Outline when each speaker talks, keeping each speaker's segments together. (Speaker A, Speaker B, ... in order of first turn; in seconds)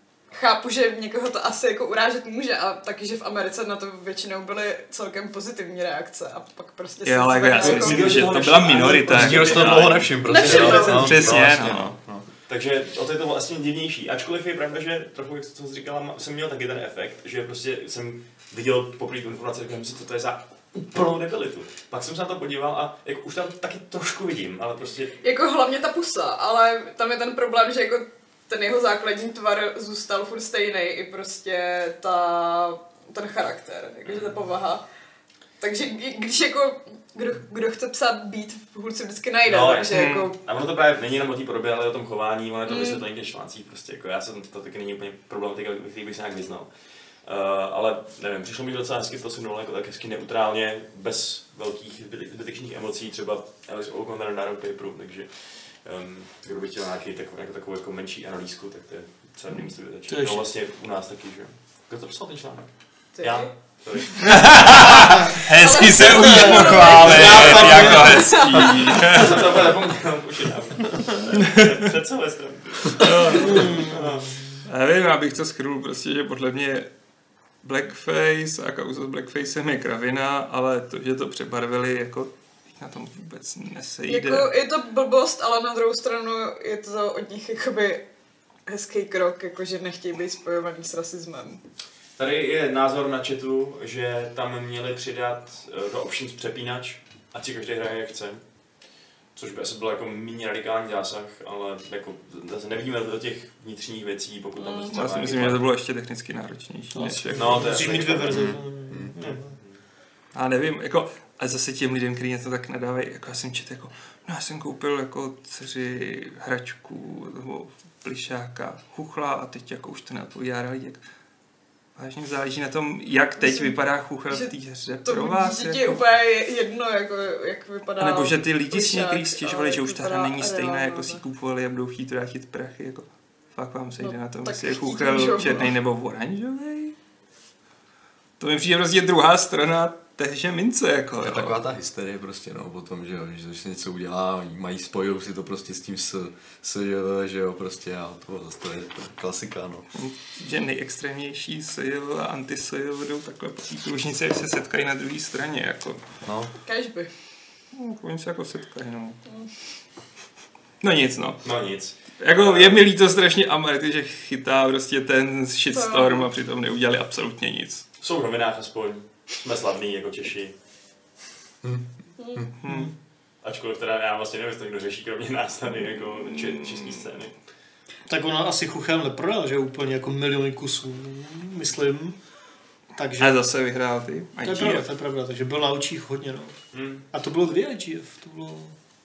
Speaker A: 0.3-8.3, 10.2-11.1, 25.2-34.8, 35.6-40.4, 42.6-43.0, 63.2-63.5, 64.9-69.1, 84.0-88.0, 88.7-91.6, 104.6-104.8, 123.4-124.5, 125.0-131.2, 134.0-135.7, 156.7-157.1, 165.7-166.3, 172.2-172.4
Speaker B: 7.0-11.9, 39.9-40.3, 64.2-69.7, 71.3-71.8, 72.9-73.9, 74.6-76.9, 77.6-84.5, 104.8-107.8, 110.3-121.0, 122.0-126.0, 128.0-136.9, 138.4-141.6, 149.9-156.0, 157.7-159.2, 160.8-161.4, 162.2-167.8, 172.6-172.9, 176.3-177.0, 183.2-184.9
Speaker C: 7.5-11.4, 12.5-25.1, 34.0-34.4, 39.4-46.7, 47.2-64.8, 66.6-74.3, 92.2-98.4, 99.3-105.6, 107.3-108.5, 109.2-109.8, 161.4-162.8, 168.0-170.5, 173.4-177.3, 186.7-187.0
Speaker D: 9.1-12.2, 108.3-109.1, 141.2-149.9, 156.2-156.5, 171.6-172.5
Speaker E: 60.1-60.5, 66.0-68.2, 73.4-74.3, 106.9-109.5, 172.6-172.9, 178.1-182.2, 182.9-183.4, 184.4-186.5, 187.1-188.7